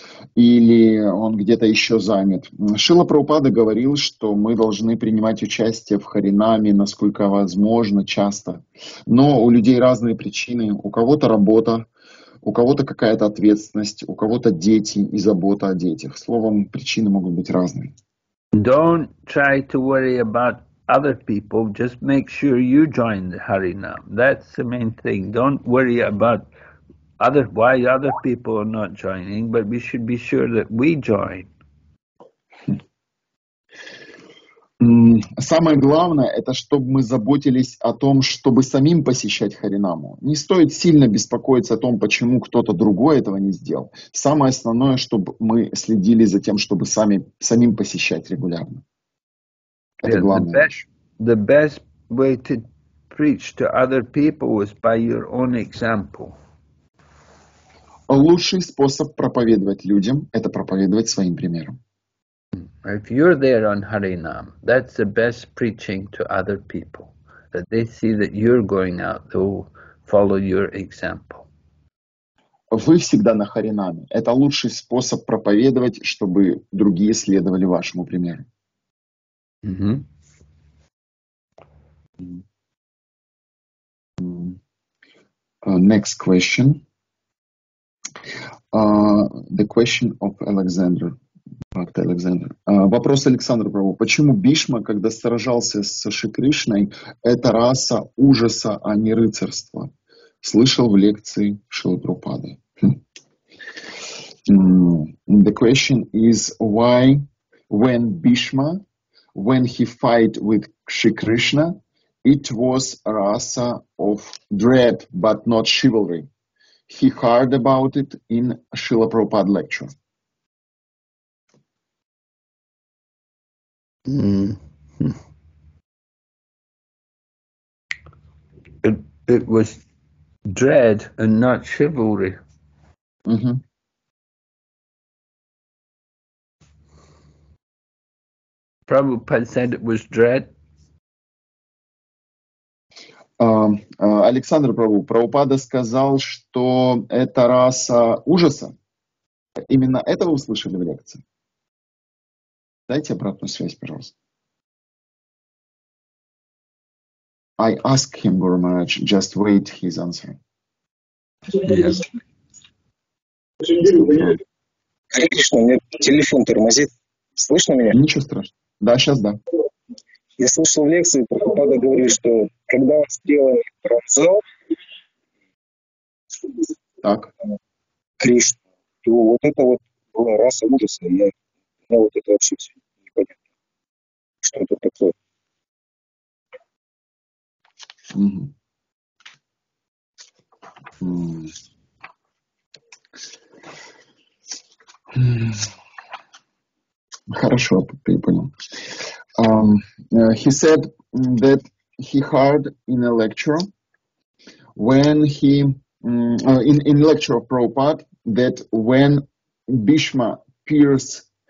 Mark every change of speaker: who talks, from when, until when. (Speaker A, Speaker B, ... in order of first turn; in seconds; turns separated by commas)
Speaker A: 0.3-11.9, Speaker A: 12.4-17.9, Speaker B: 18.5-26.4, Speaker B: 27.2-31.5, Speaker A: 34.8-48.8, Speaker A: 50.0-50.8, Speaker B: 50.0-56.4, Speaker A: 58.1-61.8, Speaker B: 62.6-71.5, Speaker A: 72.7-78.5, Speaker B: 79.6-80.0, Speaker A: 84.2-84.6, Speaker A: 85.6-86.8, Speaker A: 88.7-91.2, Speaker A: 91.7-99.9, Speaker A: 100.4-103.0, Speaker A: 104.5-108.8, Speaker A: 109.3-116.3, Speaker A: 116.9-119.9, Speaker B: 124.0-125.2, Speaker B: 128.8-129.8, Speaker B: 130.5-132.4, Speaker A: 133.2-133.6, Speaker B: 138.9-140.5, Speaker A: 143.4-148.7, Speaker A: 149.7-151.2, Speaker A: 152.9-154.1, Speaker A: 157.6-160.4, Speaker B: 161.5-162.0, Speaker A: 163.8-164.4, Speaker C: 165.1-168.0, Speaker A: 167.9-169.4, Speaker C: 170.4-174.4, Speaker A: 177.0-177.3, Speaker C: 178.2-181.3, Speaker C: 181.9-183.4, Speaker C: 184.4-185.1, Speaker A: 188.1-188.5, Speaker A: 191.0-191.5, Speaker A: 195.1-195.7, Speaker A: 197.3-203.7, Speaker A: 204.7-211.3